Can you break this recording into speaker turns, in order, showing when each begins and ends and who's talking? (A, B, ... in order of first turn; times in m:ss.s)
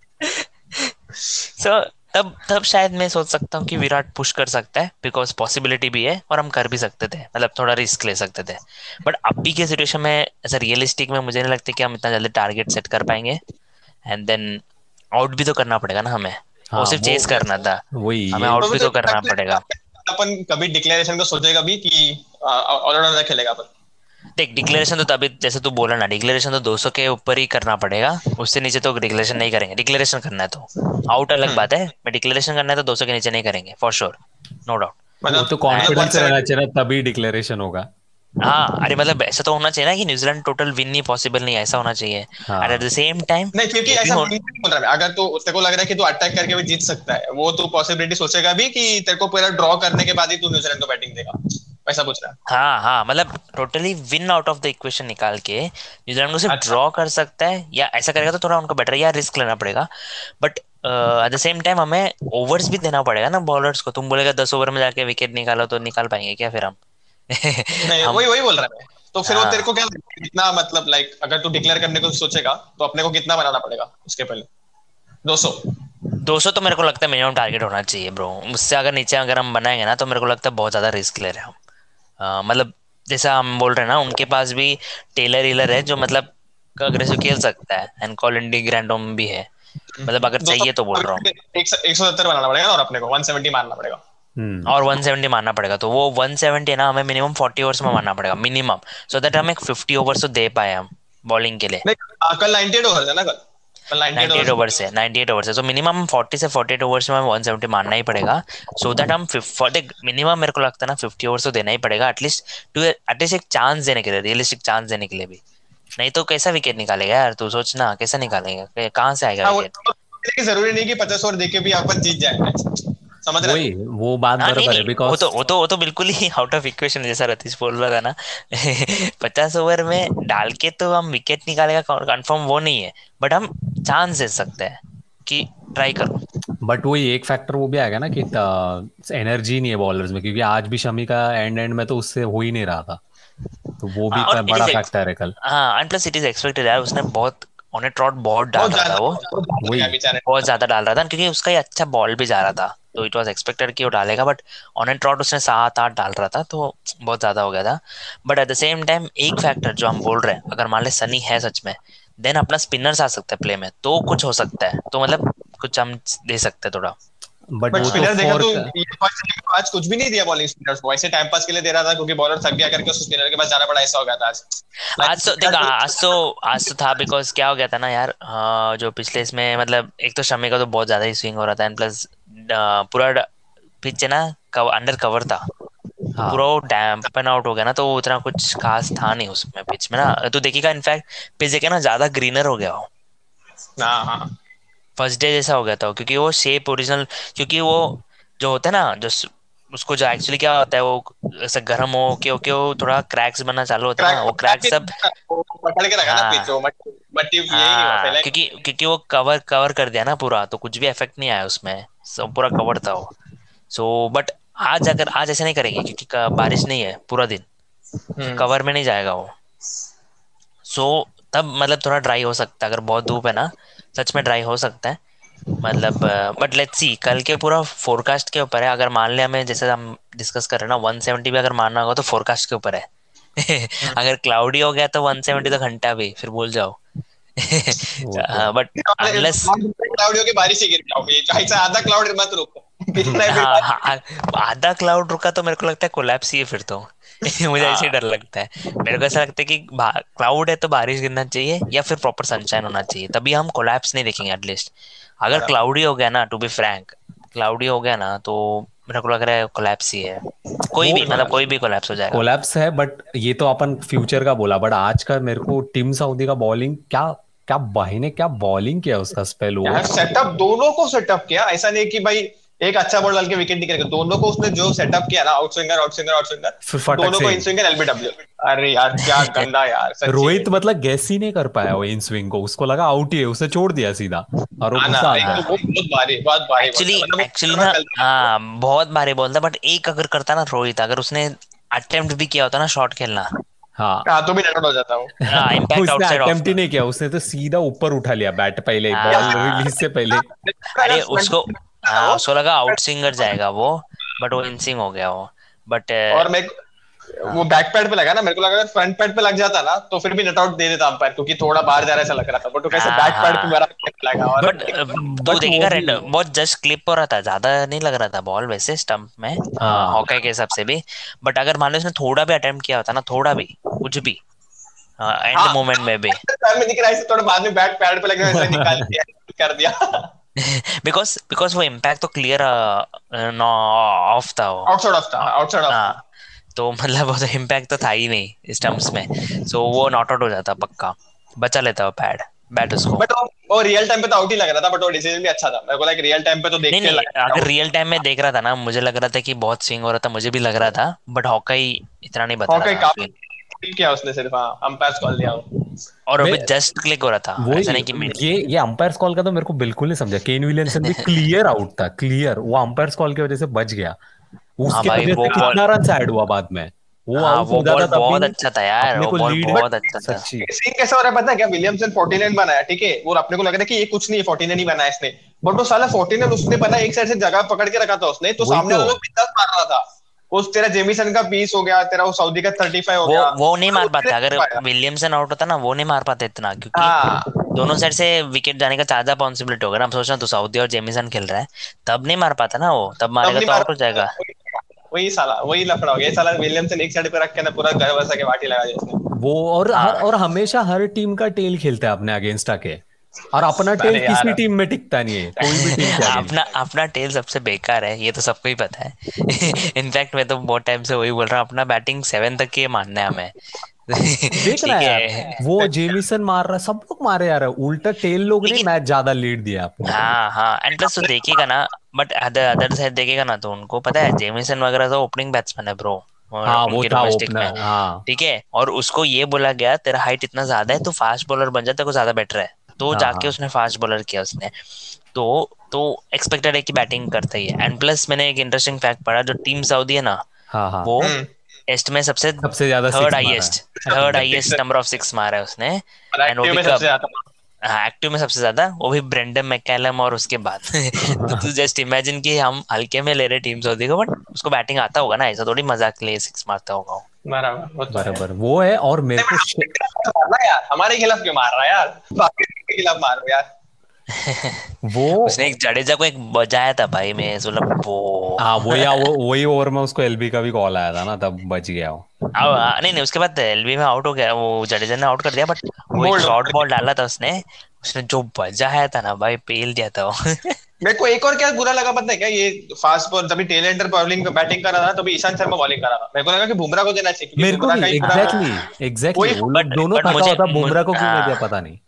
0:00.2-0:00.9 A
0:01.6-0:13.4 A
0:14.1-0:14.6 A
0:15.2-0:17.8 A
0:16.7-0:17.4 B
0:17.9-0:18.6 B
0:18.3-0:19.6 A
0:18.6-0:23.7 C
0:24.4-0:35.0 A
0:35.2-0:36.4 C
0:35.3-0:37.8 B
0:35.7-0:36.0 A
0:38.4-0:44.3 A
0:42.5-0:42.8 B
0:43.5-0:52.4 C
0:52.5-0:59.9 A
0:56.5-0:56.8 C
1:00.4-1:06.8 A
1:07.3-1:08.2 A
1:07.9-1:14.5 C
1:09.2-1:09.7 A
1:15.2-1:15.6 C
1:16.2-1:21.6 A
1:22.2-1:29.5 A
1:30.0-1:34.0 C
1:30.0-1:31.2 A
1:34.4-1:34.7 B
1:34.7-1:41.8 A
1:41.8-1:44.8 C
1:44.2-1:55.4 A
1:56.0-1:59.7 A
1:59.4-2:02.6 C
2:03.2-2:03.6 C
2:03.4-2:05.2 B
2:04.4-2:16.2 A
2:16.6-2:23.0 B
2:23.8-2:25.3 B
2:24.1-2:24.8 C
2:24.2-2:24.9 A
2:25.4-2:29.2 A
2:28.6-2:30.2 C
2:29.6-2:29.9 B
2:30.2-2:46.9 A
2:47.6-2:48.7 B
2:47.7-2:54.4 C
2:47.8-2:48.1 A
2:55.0-2:56.1 C
2:55.0-3:03.2 A
3:03.8-3:05.4 A
3:06.2-3:06.4 B
3:06.3-3:12.8 A
3:13.8-3:14.3 C
3:15.0-3:24.9 A
3:24.0-3:28.3 C
3:26.0-3:26.5 A
3:27.5-3:33.1 A
3:33.7-3:37.4 A
3:38.2-3:38.4 C
3:38.3-3:39.3 A
3:40.7-3:45.0 A
3:45.6-3:52.8 A
3:53.4-3:56.8 A
3:57.4-3:59.5 A
3:58.0-3:58.5 B
3:58.8-4:03.9 C
4:03.0-4:03.3 B
4:03.3-4:14.7 A
4:07.6-4:07.9 C
4:15.2-4:20.2 A
4:20.7-4:22.2 A
4:20.8-4:21.4 B
4:21.0-4:21.3 C
4:22.1-4:29.9 B
4:29.6-4:40.5 C
4:36.6-4:37.5 B
4:39.0-4:39.5 A
4:40.0-4:45.4 B
4:44.8-4:48.3 C
4:45.0-4:45.6 A
4:46.6-4:53.3 A
4:53.8-4:54.0 B
4:54.0-4:55.1 C
4:55.3-4:56.5 A
4:55.3-5:00.2 B
4:58.9-4:59.7 A
4:59.1-4:59.4 C
5:00.1-5:02.8 C
5:00.8-5:06.3 A
5:06.1-5:06.5 C
5:07.2-5:15.0 C
5:12.7-5:13.6 A
5:14.4-5:24.2 A
5:15.0-5:16.0 B
5:19.6-5:20.0 B
5:25.0-5:26.2 A
5:25.3-5:30.1 C
5:28.3-5:28.9 B
5:30.4-5:34.7 A
5:34.7-5:35.9 C
5:35.2-5:36.0 A
5:36.6-5:43.0 A
5:43.0-5:47.5 C
5:46.7-5:53.1 A
5:52.5-5:55.4 C
5:56.1-5:58.3 A
5:56.2-5:56.5 B
5:57.4-6:04.0 B
6:00.8-6:01.2 A
6:04.6-6:10.5 B
6:04.7-6:05.6 A
6:07.2-6:10.2 A
6:10.4-6:24.6 C
6:18.4-6:19.0 B
6:23.0-6:26.9 A
6:26.7-6:27.4 C
6:27.5-6:34.1 A
6:33.2-6:39.0 C
6:39.2-6:42.8 B
6:39.8-6:40.0 A
6:43.3-6:46.3 B
6:43.8-6:44.4 C
6:45.4-6:46.1 C
6:45.5-6:53.3 A
6:53.9-6:55.4 A
6:54.3-7:00.0 B
6:59.9-7:14.5 A
7:00.9-7:01.4 C
7:06.4-7:08.0 B
7:12.9-7:13.3 B
7:15.1-7:20.2 A
7:20.5-7:20.9 B
7:20.8-7:21.1 A
7:21.0-7:21.2 C
7:21.7-7:26.9 A
7:22.4-7:24.3 B
7:23.8-7:24.6 C
7:26.1-7:27.2 C
7:27.6-7:37.0 A
7:31.1-7:31.4 B
7:37.3-7:38.2 C
7:37.9-7:39.7 B
7:39.2-7:43.4 C
7:44.1-7:44.6 A
7:44.8-7:45.4 B
7:45.2-7:49.1 A
7:48.4-7:52.0 B
7:52.4-8:00.6 A
7:55.9-7:56.6 C
8:00.8-8:08.5 C
8:07.4-8:11.8 B
8:09.1-8:09.4 C
8:09.5-8:11.4 A